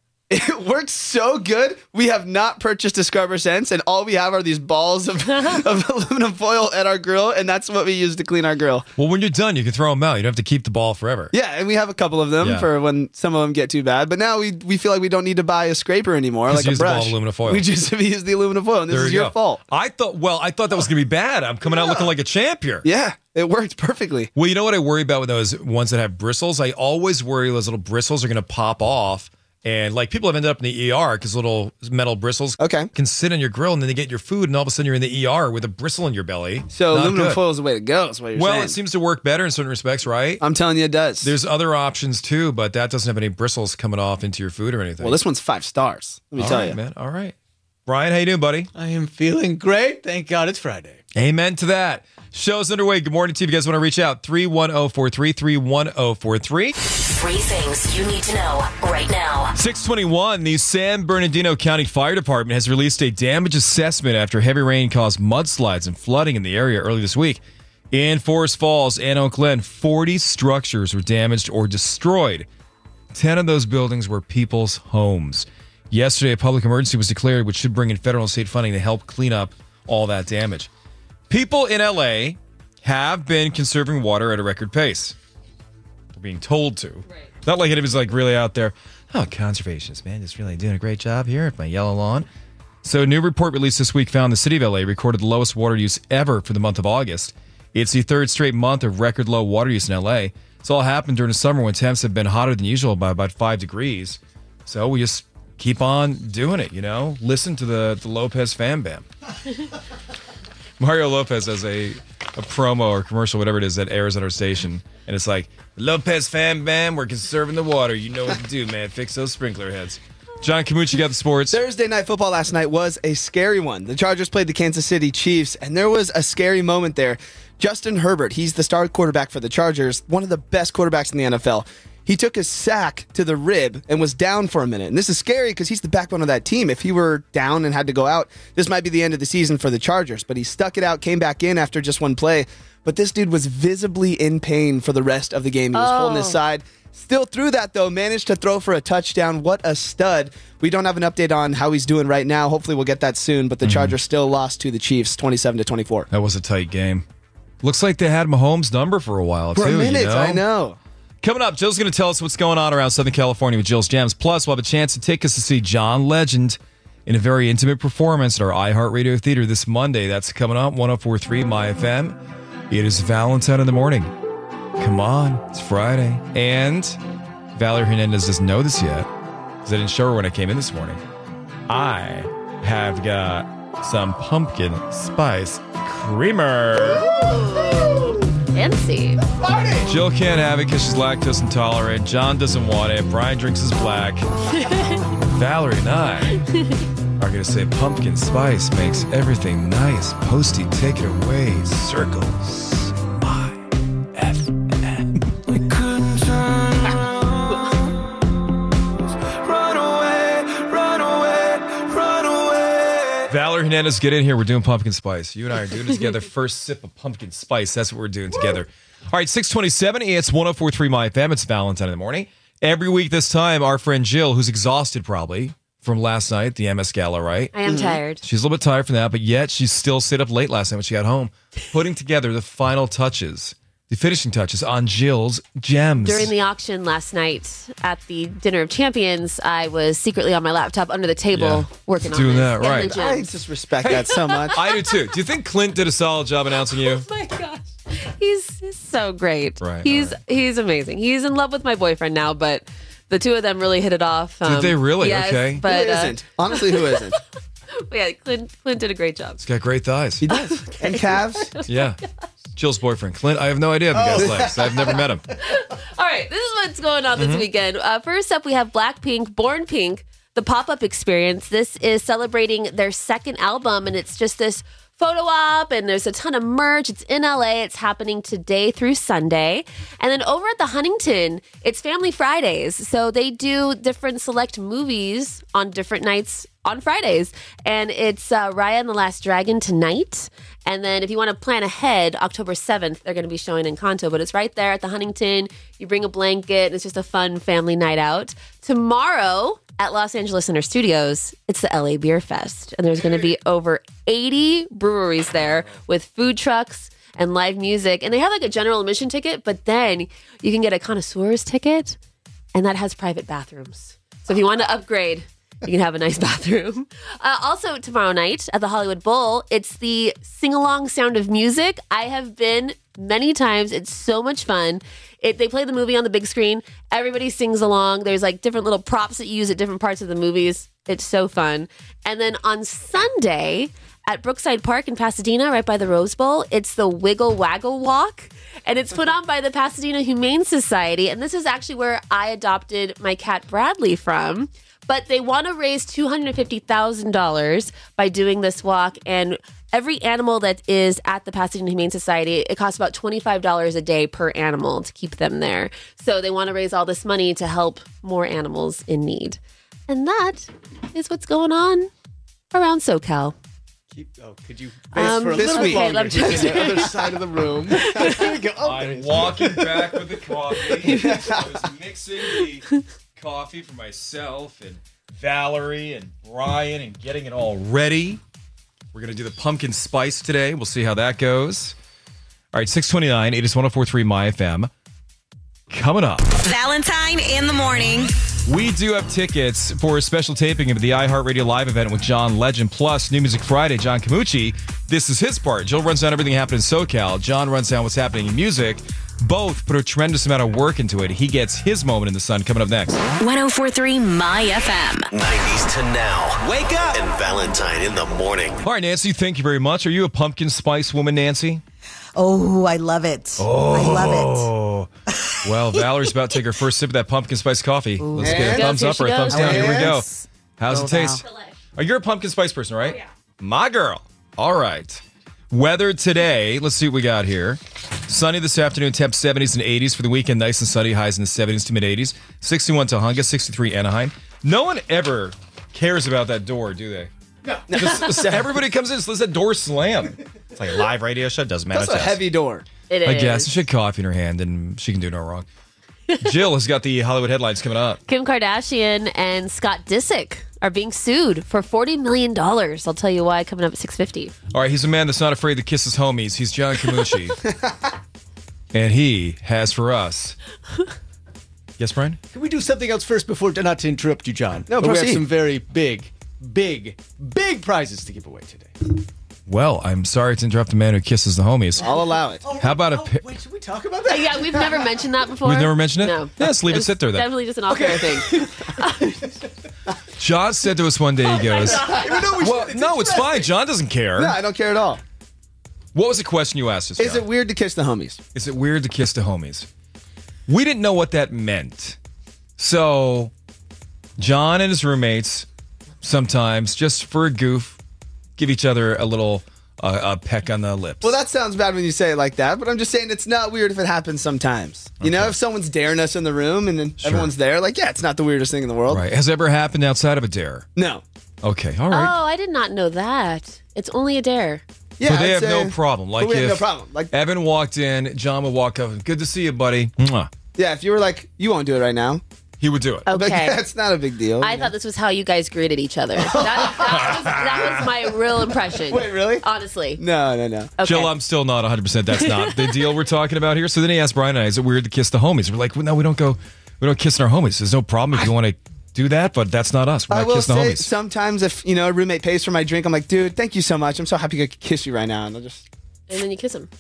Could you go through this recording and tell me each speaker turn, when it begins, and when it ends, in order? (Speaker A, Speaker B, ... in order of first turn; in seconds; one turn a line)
Speaker A: 0.3-8.9
Speaker B: 9.0-11.3
Speaker A: 11.3-19.6
Speaker B: 12.4-12.7
Speaker B: 16.5-17.6
Speaker B: 18.9-22.9
Speaker A: 21.7-22.1
Speaker A: 22.8-24.3
Speaker B: 24.4-37.4
Speaker A: 32.6-32.9
Speaker A: 36.7-38.8
Speaker B: 38.3-40.4
Speaker A: 40.4-41.3
Speaker B: 41.2-45.2
Speaker A: 45.0-46.8
Speaker B: 46.4-47.4
Speaker B: 47.9-48.7
Speaker C: 48.8-51.0
Speaker B: 51.1-56.7
Speaker D: 56.8-59.5
Speaker B: 59.5-72.5
Speaker B: 73.1-80.7
Speaker B: 81.3-85.2
Speaker B: 86.1-92.3
Speaker B: 92.8-109.0
Speaker B: 110.8-121.6
Speaker A: 121.5-156.1
Speaker E: 145.7-146.4
Speaker B: 153.6-154.0
Speaker B: 156.1-157.1
Speaker B: 157.6-160.4
Speaker A: 159.6-160.8
Speaker B: 161.2-172.2
Speaker B: 172.7-174.1
Speaker B: 174.8-177.0
Speaker B: 177.6-179.1
Speaker B: 179.6-181.0
Speaker B: 181.7-187.1
Speaker E: 187.1-189.2
Speaker C: 189.4-189.8
Speaker B: 189.8-194.3
Speaker E: 194.6-194.9
Speaker B: 195.3-196.4
Speaker B: 197.2-203.6
Speaker B: 204.2-205.1
Speaker B: 213.3-236.3
Speaker E: 227.5-228.2
Speaker A: 227.7-228.0
Speaker E: 236.0-243.3
Speaker B: 241.3-242.9
Speaker A: 242.6-244.6
Speaker B: 243.8-247.1
Speaker E: 246.7-257.0
Speaker B: 249.6-250.2
Speaker B: 254.4-255.7
Speaker A: 255.6-257.2
Speaker E: 257.8-259.4
Speaker B: 259.4-260.2
Speaker A: 260.2-261.5
Speaker E: 260.4-261.6
Speaker B: 261.7-262.0
Speaker B: 262.6-265.2
Speaker A: 263.9-265.0
Speaker E: 265.4-312.0
Speaker B: 267.2-267.5
Speaker E: 312.5-361.9
Speaker E: 362.5-363.4
Speaker C: 363.9-370.1
Speaker E: 364.9-367.0
Speaker A: 365.0-366.8
Speaker E: 367.7-368.4
Speaker B: 368.6-378.2
Speaker E: 370.9-371.2
Speaker C: 370.9-371.4
Speaker B: 378.9-381.8
Speaker B: 382.5-384.7
Speaker B: 385.7-386.3
Speaker F: 386.4-388.1
Speaker B: 388.5-403.0
Speaker D: 403.2-405.1
Speaker G: 405.1-408.6
Speaker B: 408.6-411.6
Speaker F: 412.2-414.5
Speaker B: 413.4-414.9
Speaker B: 415.4-421.2
Speaker A: 418.2-418.7
Speaker E: 418.4-420.0
Speaker A: 419.3-420.0
Speaker E: 421.1-421.5
Speaker B: 421.8-437.1
Speaker A: 437.7-438.5
Speaker B: 437.7-442.2
Speaker A: 441.7-442.6
Speaker E: 442.9-443.6
Speaker B: 443.1-445.5
Speaker B: 446.2-448.0
Speaker E: 448.1-454.3
Speaker B: 454.5-457.4
Speaker A: 457.5-457.8
Speaker B: 458.7-460.4
Speaker B: 461.8-462.2
Speaker C: 462.3-468.8
Speaker A: 464.7-465.3
Speaker B: 469.5-471.9
Speaker A: 471.8-472.4
Speaker C: 472.4-474.9
Speaker B: 472.6-473.2
Speaker E: 474.1-479.3
Speaker B: 475.4-477.3
Speaker C: 477.7-478.5
Speaker B: 480.2-484.4
Speaker E: 481.4-481.9
Speaker C: 481.6-483.5
Speaker A: 484.2-485.0
Speaker B: 485.9-487.2
Speaker A: 487.0-488.2
Speaker B: 488.4-489.7
Speaker B: 490.5-492.0
Speaker B: 492.6-493.3
Speaker B: 494.2-495.5
Speaker B: 496.0-497.8
Speaker B: 498.4-501.2
Speaker A: 501.0-509.0
Speaker B: 505.0-505.4
Speaker B: 507.0-507.3
Speaker B: 508.9-510.7
Speaker A: 510.8-511.0
Speaker B: 511.4-512.1
Speaker E: 511.9-514.6
Speaker A: 515.0-517.1
Speaker B: 515.0-520.3
Speaker A: 520.6-522.2
Speaker B: 522.6-523.1
Speaker E: 523.1-523.6
Speaker A: 523.1-524.7
Speaker E: 524.4-530.0
Speaker A: 526.2-527.4
Speaker A: 528.9-529.5
Speaker A: 530.0-530.7
Speaker E: 530.8-531.1
Speaker B: 530.8-540.9
Speaker E: 532.2-532.7
Speaker A: 540.1-545.7
Speaker E: 546.1-546.7